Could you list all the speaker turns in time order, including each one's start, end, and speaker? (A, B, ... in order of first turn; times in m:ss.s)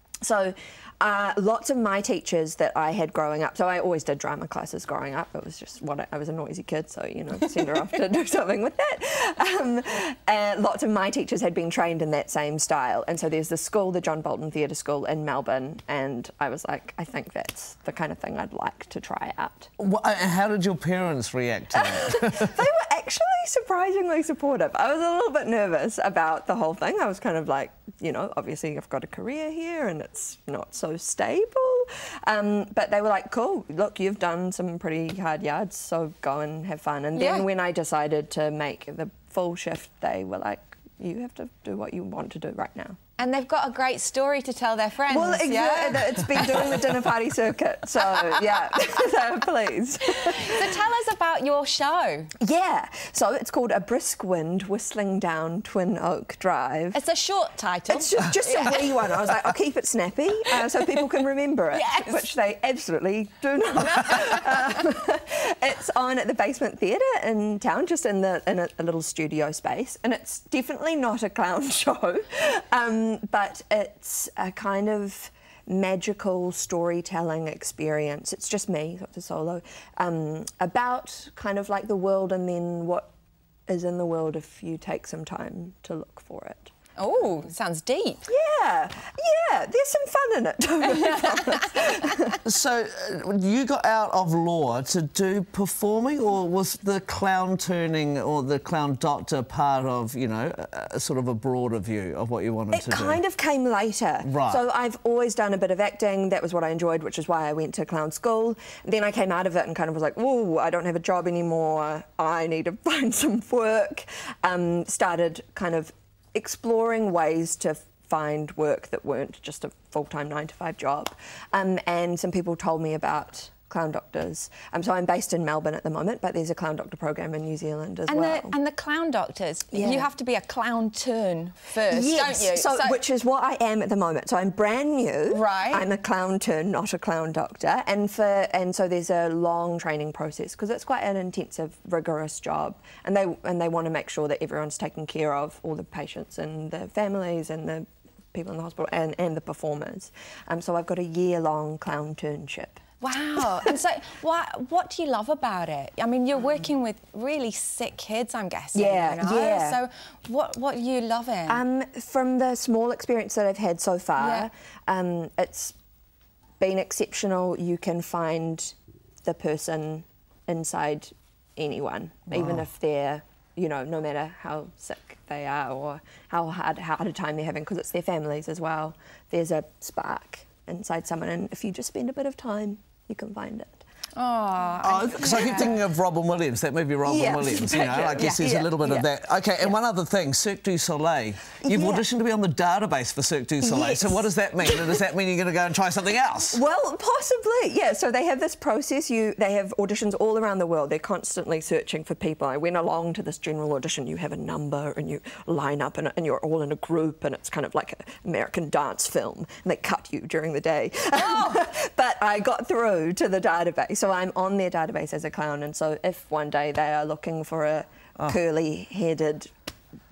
0:00.2-0:19.7 A
0:19.8-0:22.6 B
0:21.7-0:43.0 A
0:37.2-0:37.5 C
0:43.2-0:46.9 C
0:45.1-0:50.7 A
0:50.1-0:52.3 C
0:52.4-0:57.0 A
0:56.9-0:59.1 C
0:57.9-1:23.1 A
1:01.7-1:02.3 C
1:04.1-1:04.4 C
1:23.7-1:26.7 A
1:27.0-1:28.3 C
1:28.3-1:32.4 A
1:30.9-1:31.8 C
1:32.4-1:43.2 B
1:42.7-2:08.6 A
1:44.2-1:44.6 B
2:08.1-2:13.0 C
2:09.7-2:10.1 A
2:11.9-2:32.8 A
2:15.3-2:15.9 C
2:33.0-2:41.6 C
2:38.8-2:39.8 A
2:41.5-2:45.8 A
2:44.2-2:44.5 C
2:46.6-3:03.8 A
3:04.2-3:05.8 C
3:04.8-3:16.6 B
3:07.0-3:09.1 A
3:11.6-3:12.0 A
3:13.6-3:15.1 A
3:16.5-3:39.5 A
3:31.2-3:31.6 C